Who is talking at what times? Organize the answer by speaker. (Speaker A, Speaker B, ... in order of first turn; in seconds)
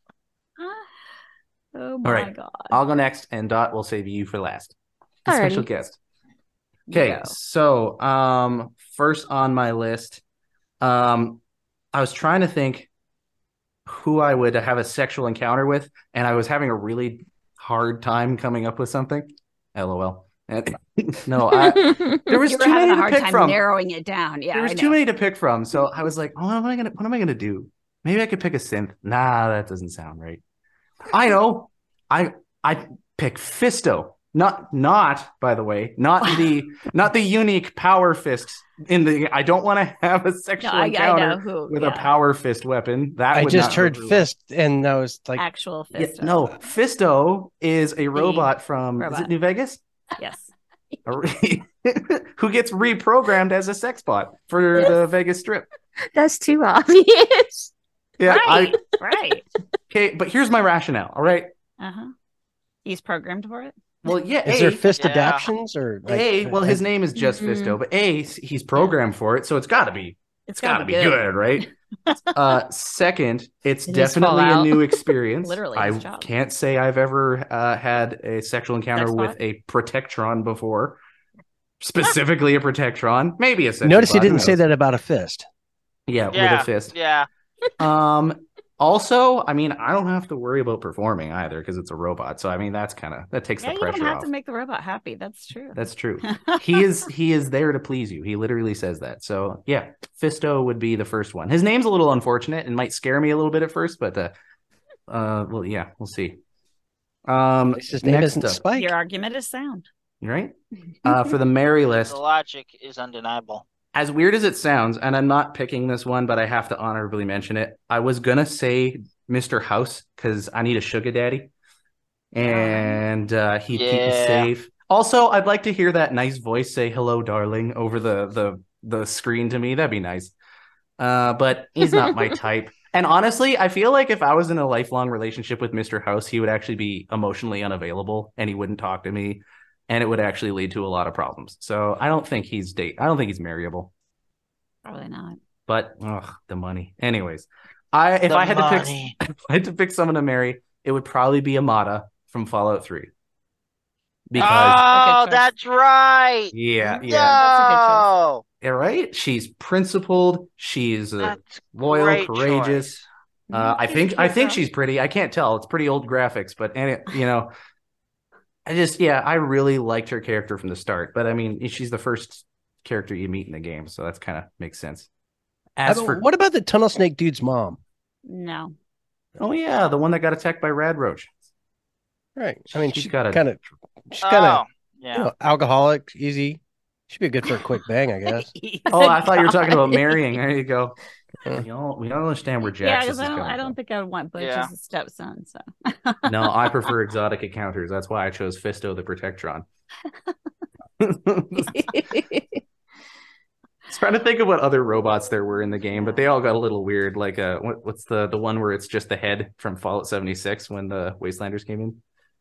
Speaker A: 0.6-1.1, 1.7-2.8, 6.9-7.3, 22.3-25.0, 40.6-42.1, 45.4-46.5, 48.1-49.3, 50.2-50.5, 58.3-59.5, 61.8-62.1, 62.9-63.8, 70.5-72.2, 75.4-76.3, 79.0-79.4, 93.6-96.8, 108.7-109.8, 122.4-123.0, 144.8-145.4, 154.4-155.5, 156.8-158.1, 163.5-164.6, 178.3-178.8, 188.3-189.2, 192.8-196.9, 205.5-206.3
Speaker B: 2.0-6.0, 6.9-10.2, 10.8-11.4, 11.9-12.9, 13.9-23.6, 24.5-30.4, 31.1-44.3, 46.0-49.8, 51.1-55.7, 58.2-58.8, 59.9-61.5, 64.0-64.9, 66.1-71.7, 72.3-81.0, 81.8-84.6, 86.1-86.9, 87.8-94.3, 95.8-104.3, 105.1-106.4, 107.3-108.6, 110.2-112.2, 113.9-121.5, 122.3-130.3, 131.0-143.9, 145.7-153.1, 154.3-154.8, 156.5-157.4, 158.6-163.0, 163.5-167.5, 168.7-175.1, 175.8-176.2, 179.4-181.3, 182.7-183.6, 188.9-193.8, 196.2-199.7, 201.0-201.9, 203.9-212.0
Speaker C: 5.3-5.7, 21.6-22.1, 56.1-57.7, 67.2-67.8, 73.9-74.7, 189.0-190.0, 201.7-202.4
Speaker D: 43.3-45.4, 64.5-66.8, 83.8-85.5, 107.7-108.9, 175.9-177.8, 182.4-183.6, 184.1-184.6, 185.2-188.5
Speaker E: 65.0-65.5, 86.3-87.3, 111.9-113.7, 123.7-124.5, 148.3-149.2, 154.4-158.4, 161.2-163.0, 184.2-185.3, 194.4-194.7